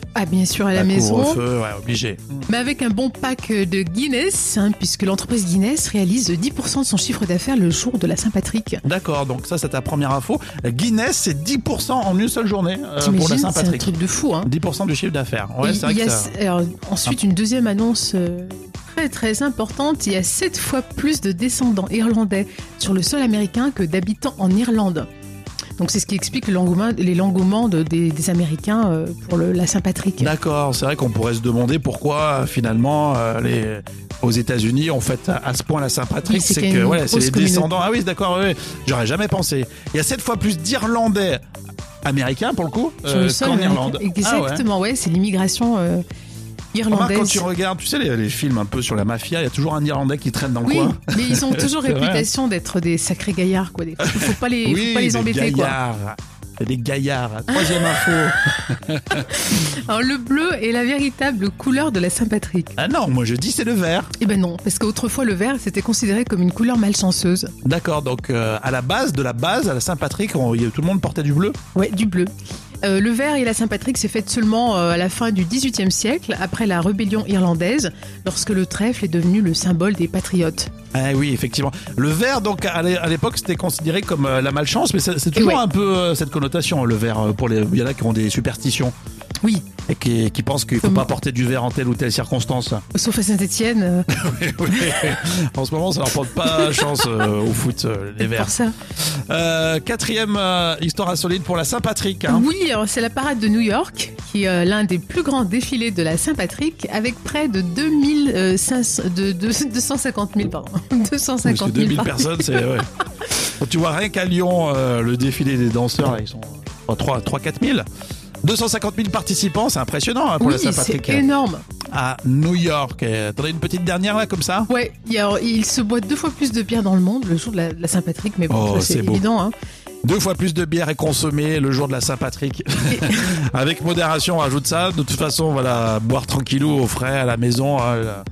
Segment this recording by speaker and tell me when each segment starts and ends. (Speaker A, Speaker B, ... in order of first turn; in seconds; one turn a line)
Speaker A: 0.1-1.4
Speaker B: 0.7-2.5
Speaker A: 2.5-8.8
Speaker B: 8.8-13.9
Speaker A: 13.0-14.5
Speaker B: 14.4-16.3
Speaker A: 15.6-25.1
Speaker A: 25.8-30.3
Speaker B: 30.2-41.4
Speaker A: 36.2-37.7
Speaker B: 42.0-44.6
Speaker A: 43.0-46.0
Speaker A: 46.7-47.4
Speaker B: 46.9-52.3
Speaker A: 50.6-55.8
Speaker B: 54.0-59.3
Speaker A: 57.5-58.1
Speaker A: 59.3-62.7
Speaker B: 62.8-64.1
Speaker A: 64.2-67.5
Speaker B: 67.6-71.6
Speaker A: 71.7-72.3
Speaker A: 72.8-80.7
Speaker B: 80.9-88.9
Speaker A: 85.3-85.6
Speaker A: 89.4-89.7
Speaker B: 89.9-92.8
Speaker A: 92.9-94.1
Speaker B: 94.1-102.5
Speaker A: 96.3-97.1
Speaker A: 98.2-98.7
Speaker A: 102.3-112.7
Speaker B: 111.4-117.8
Speaker B: 118.4-121.2
Speaker A: 120.4-121.6
Speaker B: 121.9-124.7
Speaker A: 124.7-129.5
Speaker B: 128.5-129.2
Speaker B: 130.0-138.2
Speaker A: 132.9-133.2